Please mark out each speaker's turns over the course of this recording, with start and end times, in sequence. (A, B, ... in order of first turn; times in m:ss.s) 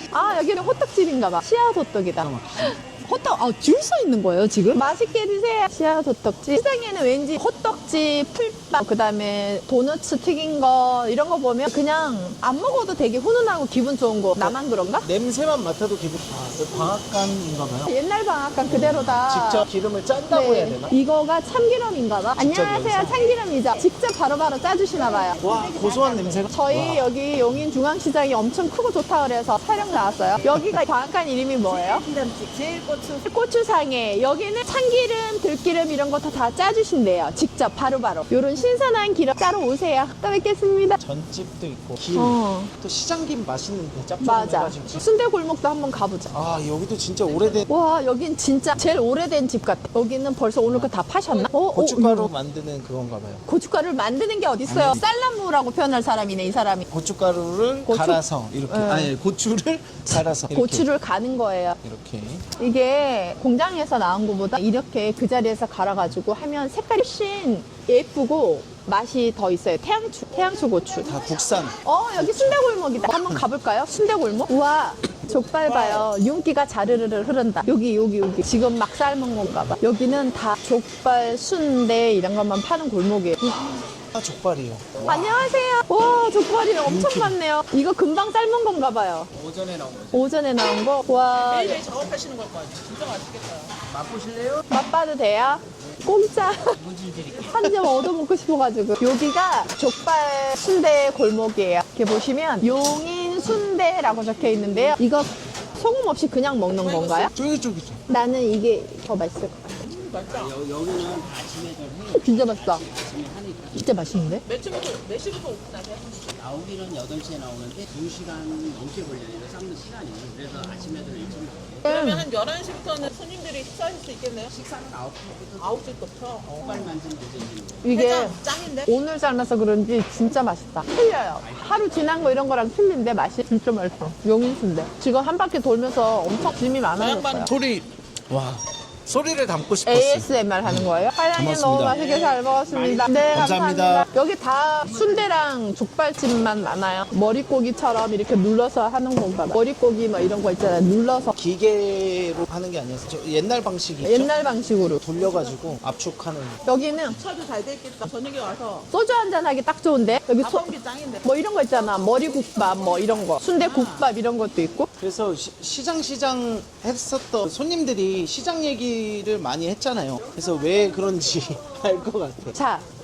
0:00.1-0:15.1 A
0:02.2-0:02.8 B
0:14.4-0:17.9 B
0:17.9-0:19.7 A
0:18.7-0:21.0 B
0:20.3-0:25.4 A
0:22.4-0:23.2 B
0:25.3-0:26.4 C
0:25.4-0:27.1 B
0:26.5-0:32.0 A
0:31.7-0:33.2 C
0:33.2-0:41.0 A
0:41.0-0:45.0 B
0:42.1-0:42.7 A
0:44.2-0:46.3 A
0:46.3-0:47.6 B
0:47.3-0:47.6 C
0:47.7-0:52.3 A
0:50.6-0:50.9 B
0:51.7-0:53.4 B
0:53.5-0:56.9 A
0:54.7-0:55.0 B
0:56.9-1:00.9 B
0:57.9-0:59.1 A
1:00.1-1:01.8 A
1:01.8-1:02.5 B
1:02.6-1:11.2 A
1:11.0-1:13.5 B
1:11.8-1:23.8 A
1:15.7-1:16.1 C
1:24.1-1:25.4 B
1:25.0-1:29.3 A
1:26.8-1:27.4 B
1:29.3-1:30.3 D
1:30.1-1:31.8 A
1:31.5-1:33.8 C
1:33.9-1:34.7 D
1:34.7-1:36.8 A
1:35.8-1:37.7 D
1:37.5-1:47.3 A
1:46.8-1:47.3 C
1:47.3-1:48.0 B
1:48.1-1:49.8 A
1:49.8-1:50.6 C
1:50.3-1:54.1 D
1:52.2-1:52.8 A
1:53.7-1:54.4 A
1:54.4-1:56.3 C
1:56.3-2:01.9 D
2:01.8-2:04.6 C
2:01.9-2:02.2 A
2:04.5-2:05.9 D
2:05.6-2:06.8 C
2:06.4-2:07.9 D
2:07.8-2:17.5 A
2:07.9-2:08.9 C
2:11.4-2:12.4 D
2:17.0-2:22.0 B
2:19.9-2:31.4 A
2:22.0-2:23.2 C
2:22.0-2:23.3 D
2:23.3-2:24.1 B
2:24.9-2:25.2 D
2:31.4-2:34.3 B
2:34.0-2:35.0 A
2:35.0-2:36.6 B
2:36.7-2:37.2 A
2:37.2-2:38.9 C
2:38.9-2:40.7 A
2:40.4-2:41.3 C
2:41.2-2:44.9 A
2:43.4-2:44.1 C
2:45.0-2:52.6 B
2:52.5-2:52.8 A